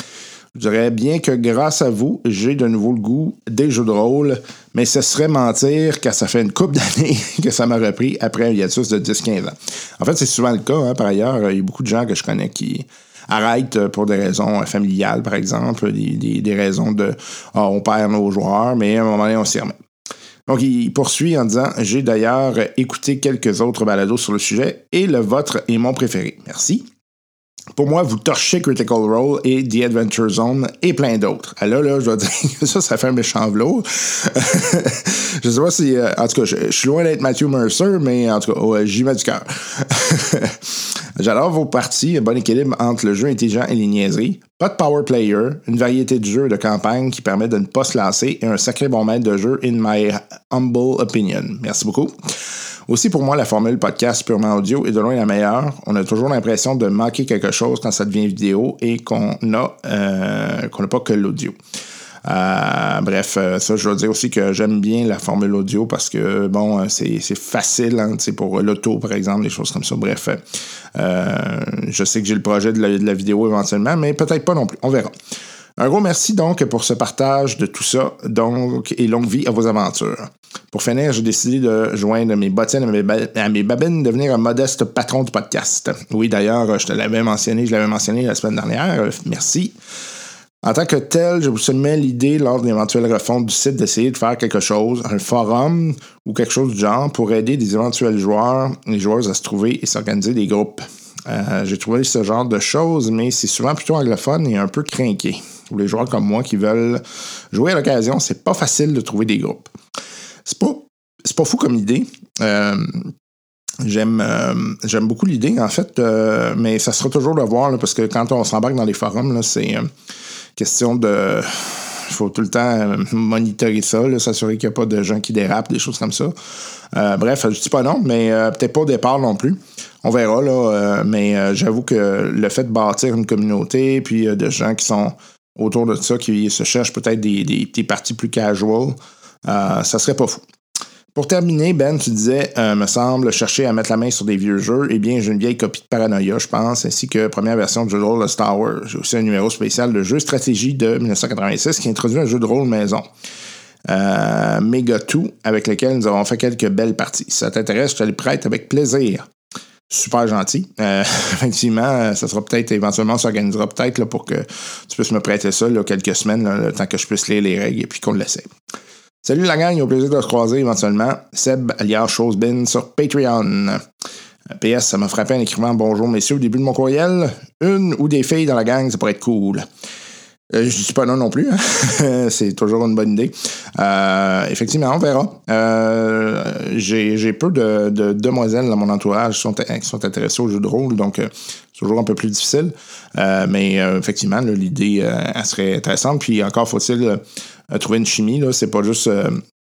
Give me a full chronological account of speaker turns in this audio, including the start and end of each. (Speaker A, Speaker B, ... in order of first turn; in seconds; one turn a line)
Speaker A: 0.5-19.7
Speaker A: 20.5-26.9
Speaker A: 27.7-52.3
Speaker A: 52.9-61.6
Speaker A: 62.2-70.4
Speaker A: 70.9-75.1
Speaker A: 75.8-89.8
Speaker A: 90.6-109.7
Speaker A: 110.4-113.1
Speaker A: 113.8-119.9
Speaker A: 120.5-126.3
Speaker A: 126.9-140.4
Speaker A: 141.1-153.1
Speaker A: 153.8-159.3
Speaker A: 159.9-168.5
Speaker A: 169.2-173.8
Speaker A: 174.5-179.7
Speaker A: 180.5-199.4